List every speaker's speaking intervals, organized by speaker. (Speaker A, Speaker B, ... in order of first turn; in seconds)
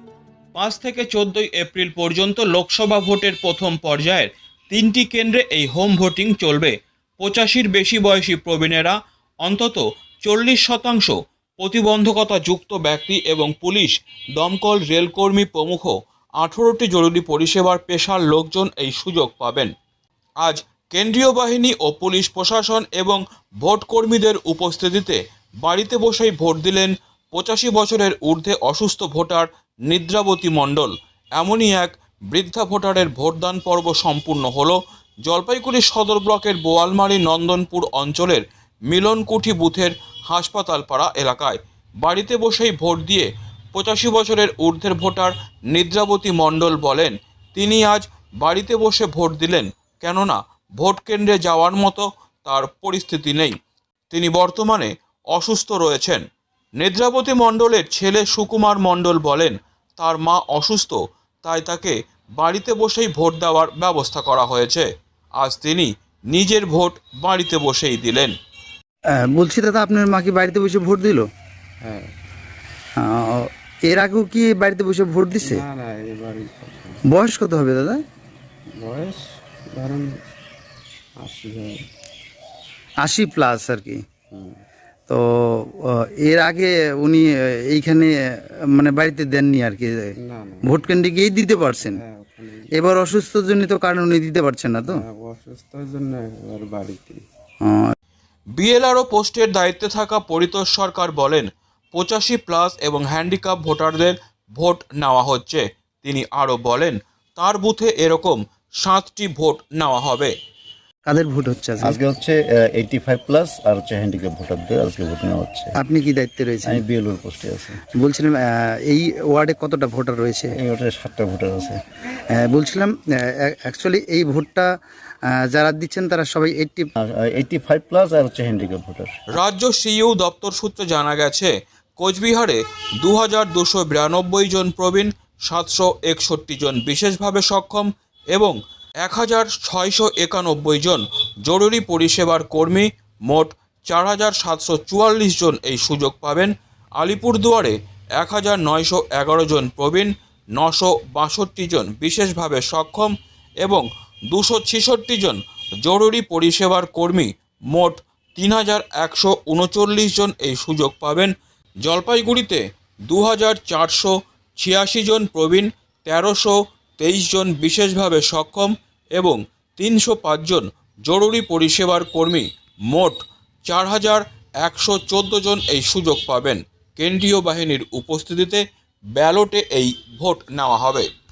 Speaker A: 0.6-19.7, 20.4-53.5, 54.1-56.2, 56.8-68.3, 98.5-110.3, 129.3-178.6, 179.2-181.1
Speaker B: 69.1-71.3, 73.0-75.6, 77.1-78.0, 83.0-84.0, 85.1-88.1, 88.8-90.1, 90.6-92.0, 92.8-95.0, 97.6-97.9, 111.1-112.0, 115.8-116.8, 118.0-120.5, 122.3-124.7, 125.5-126.9
Speaker C: 71.8-72.1, 75.4-77.0, 78.8-80.3, 81.2-81.8, 84.3-84.6, 90.2-90.8, 91.8-92.7, 94.9-97.2
Speaker D: 111.8-115.8, 116.7-117.8, 120.5-121.8, 127.0-129.1